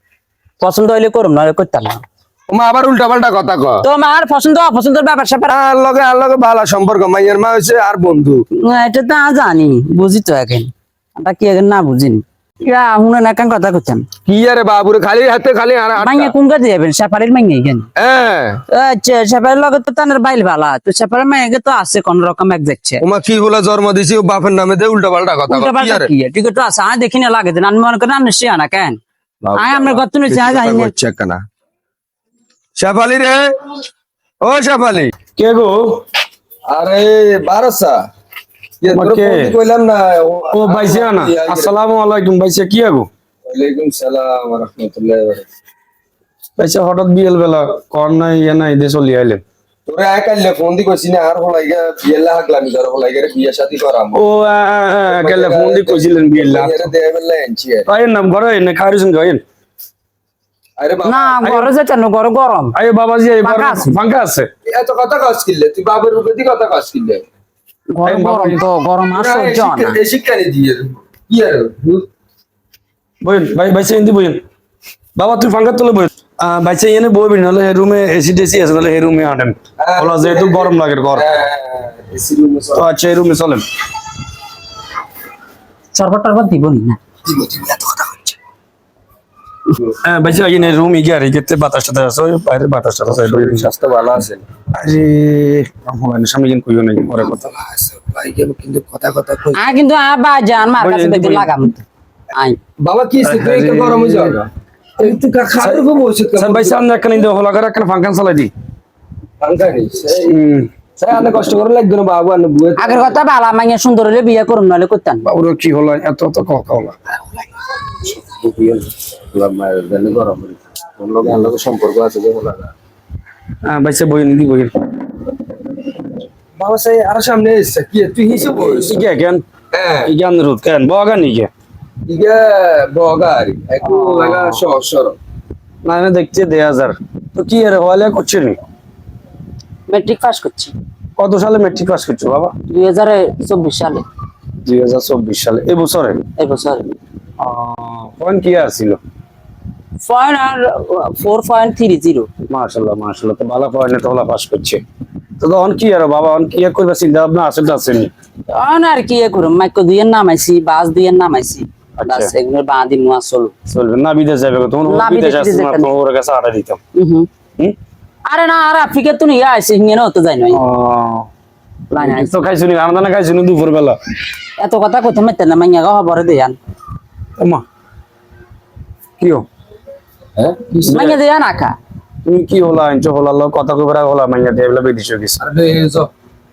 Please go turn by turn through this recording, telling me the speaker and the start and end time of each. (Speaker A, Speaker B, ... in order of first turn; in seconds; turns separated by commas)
Speaker A: 0.6-2.0, Speaker B: 2.5-3.8, Speaker A: 3.8-5.5, Speaker B: 5.5-8.4, Speaker A: 8.6-14.1, Speaker B: 14.2-16.3, Speaker A: 16.0-17.9, Speaker B: 18.0-18.6, Speaker A: 18.7-23.0, Speaker B: 23.0-26.1, Speaker A: 25.5-29.0, Speaker B: 29.4-31.4, Speaker A: 29.6-30.9, Speaker B: 32.8-33.5, Speaker B: 34.4-35.1, Speaker C: 35.4-36.0, Speaker B: 36.7-38.0, Speaker B: 38.8-41.7, Speaker C: 38.9-39.5, Speaker C: 40.5-43.1, Speaker B: 43.5-45.5, Speaker C: 46.6-49.4, Speaker B: 49.9-54.2, Speaker C: 54.1-56.9, Speaker B: 55.1-57.9, Speaker C: 57.9-59.4, Speaker B: 60.8-61.4, Speaker A: 61.0-62.8, Speaker C: 61.4-61.7, Speaker C: 62.7-64.5, Speaker A: 63.4-64.0, Speaker B: 64.7-67.2, Speaker A: 67.9-70.0, Speaker C: 68.0-68.6, Speaker B: 69.1-72.1, Speaker C: 73.2-74.4, Speaker C: 75.2-81.2, Speaker B: 79.8-82.9, Speaker C: 82.7-83.6, Speaker A: 85.9-87.0, Speaker B: 87.2-88.3, Speaker C: 90.0-93.7, Speaker B: 93.1-94.4, Speaker C: 94.7-97.4, Speaker B: 97.2-99.6, Speaker A: 99.6-101.8, Speaker C: 100.8-101.5, Speaker A: 102.3-102.6, Speaker B: 102.8-104.5, Speaker C: 103.2-104.4, Speaker B: 105.0-107.2, Speaker C: 105.6-108.5, Speaker B: 109.4-110.3, Speaker C: 110.3-110.7, Speaker B: 111.0-113.2, Speaker A: 112.8-115.3, Speaker C: 115.2-117.2, Speaker B: 117.8-122.7, Speaker C: 123.6-124.7, Speaker B: 126.6-129.0, Speaker C: 128.8-129.4, Speaker B: 129.7-130.1, Speaker C: 130.0-131.5, Speaker B: 132.1-135.2, Speaker C: 133.8-134.6, Speaker C: 135.8-138.6, Speaker A: 139.9-140.7, Speaker C: 141.2-142.5, Speaker A: 142.7-144.0, Speaker C: 144.6-146.2, Speaker A: 146.4-146.8, Speaker C: 147.4-149.0, Speaker A: 150.0-152.3, Speaker C: 152.5-154.8, Speaker C: 155.4-158.1, Speaker A: 158.5-163.5, Speaker C: 162.0-162.3, Speaker C: 163.7-166.8, Speaker A: 164.8-165.9, Speaker A: 166.9-167.3, Speaker A: 168.2-170.6, Speaker C: 170.5-171.3, Speaker A: 171.9-172.3, Speaker C: 171.9-174.0, Speaker A: 174.6-176.6, Speaker C: 177.4-177.6, Speaker C: 179.2-179.4, Speaker B: 180.3-180.9, Speaker C: 180.8-181.2, Speaker A: 180.9-181.7, Speaker C: 182.2-185.4, Speaker B: 185.4-186.1